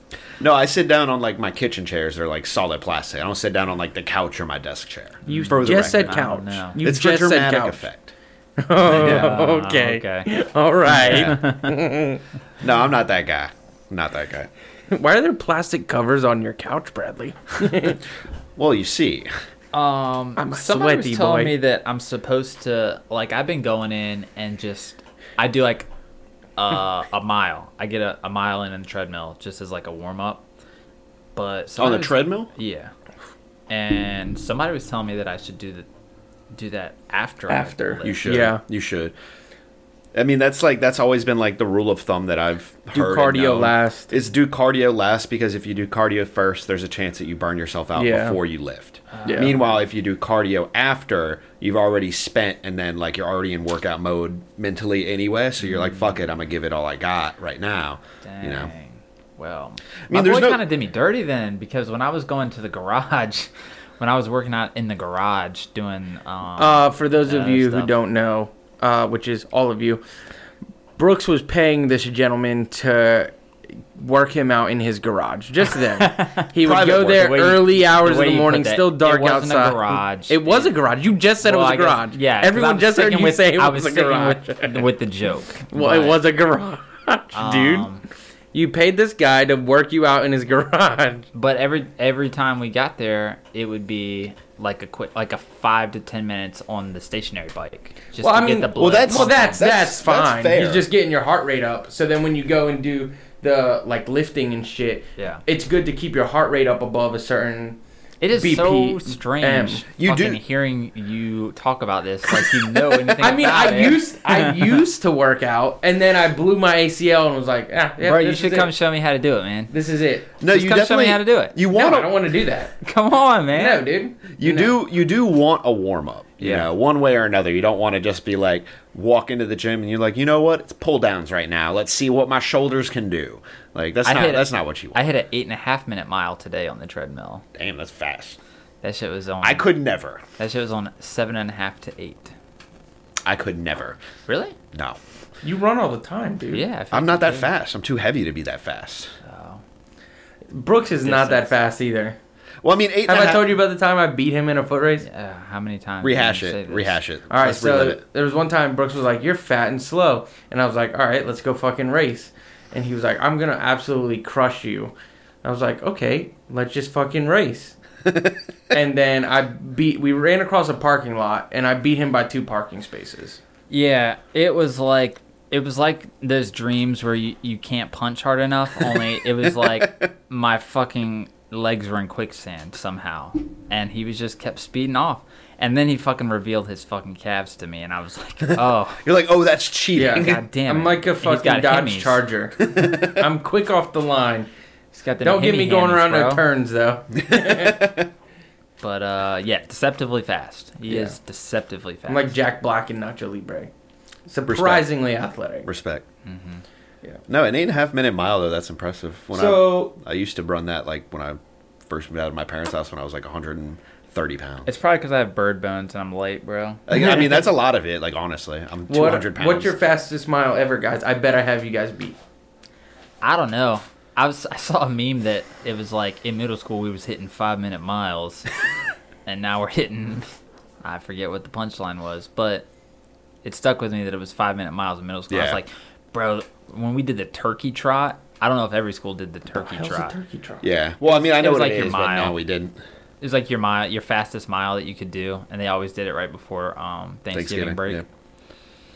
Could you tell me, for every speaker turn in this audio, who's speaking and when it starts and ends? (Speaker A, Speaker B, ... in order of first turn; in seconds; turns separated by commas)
Speaker A: 0.4-6.2, Speaker B: 5.3-6.8, Speaker C: 5.3-7.9, Speaker A: 6.8-8.1, Speaker C: 8.6-12.2, Speaker B: 8.8-10.3, Speaker A: 8.9-9.4, Speaker B: 10.9-11.8, Speaker A: 10.9-11.4, Speaker A: 12.6-14.5, Speaker C: 14.9-18.0, Speaker A: 18.6-19.3, Speaker B: 19.7-25.9, Speaker C: 20.4-21.5, Speaker B: 26.6-30.4, Speaker B: 31.4-32.9, Speaker A: 31.8-32.5, Speaker B: 33.7-35.9, Speaker B: 36.5-38.5, Speaker C: 37.5-38.6, Speaker A: 38.0-39.1, Speaker A: 40.1-58.7, Speaker C: 42.9-44.1, Speaker C: 48.0-48.4, Speaker B: 49.1-49.8, Speaker C: 49.3-49.5, Speaker B: 55.6-56.2, Speaker B: 58.2-63.5, Speaker A: 60.1-60.6, Speaker B: 64.0-67.9, Speaker C: 66.6-70.0, Speaker C: 71.0-73.3, Speaker C: 74.0-84.9, Speaker B: 76.0-80.7, Speaker A: 76.6-77.3, Speaker B: 81.4-86.2, Speaker C: 85.7-87.9, Speaker B: 87.3-88.0, Speaker C: 88.5-91.3, Speaker B: 91.3-99.6, Speaker C: 98.2-107.8, Speaker A: 98.8-100.9, Speaker B: 105.2-105.4, Speaker B: 108.2-114.5, Speaker C: 108.3-109.8, Speaker A: 110.0-110.4, Speaker C: 112.3-118.7, Speaker B: 118.0-119.7, Speaker C: 119.7-120.4, Speaker A: 120.4-122.2, Speaker B: 120.5-121.6, Speaker C: 121.7-122.8, Speaker B: 122.8-123.8, Speaker C: 123.5-124.8, Speaker A: 124.4-135.0, Speaker B: 126.4-126.7, Speaker B: 134.0-137.4, Speaker A: 137.5-138.4, Speaker B: 138.8-139.7, Speaker A: 139.4-140.2, Speaker B: 140.4-142.3, Speaker A: 143.2-144.0, Speaker B: 144.3-144.6, Speaker A: 144.7-145.0, Speaker C: 145.4-146.7, Speaker B: 146.5-147.5, Speaker A: 146.9-149.1, Speaker B: 149.2-149.6, Speaker C: 150.5-152.2, Speaker B: 151.0-151.6, Speaker A: 152.6-153.5, Speaker C: 153.1-155.1, Speaker B: 155.0-157.0, Speaker A: 156.0-158.0, Speaker C: 157.3-164.9, Speaker C: 165.4-167.8, Speaker C: 168.7-173.4, Speaker B: 173.7-189.0, Speaker A: 178.9-180.1, Speaker A: 188.5-190.4, Speaker C: 190.0-194.5, Speaker B: 190.1-192.2, Speaker A: 192.7-193.2, Speaker B: 194.9-196.4, Speaker C: 195.2-197.9, Speaker A: 197.2-198.1, Speaker B: 198.8-202.3, Speaker C: 200.9-201.2, Speaker C: 202.1-203.7, Speaker C: 204.3-205.7, Speaker A: 204.5-204.9, Speaker A: 205.7-206.0, Speaker B: 206.3-206.6, Speaker A: 207.3-214.7, Speaker C: 209.3-210.0, Speaker B: 214.7-216.8, Speaker A: 216.9-219.8, Speaker C: 216.9-217.4, Speaker C: 218.9-222.2, Speaker B: 223.2-228.5, Speaker B: 229.3-230.3, Speaker B: 230.8-232.7, Speaker B: 233.4-240.2, Speaker A: 235.3-235.6, Speaker C: 239.5-240.7, Speaker A: 240.6-242.8, Speaker B: 241.1-242.4, Speaker B: 243.2-248.0, Speaker A: 247.3-248.1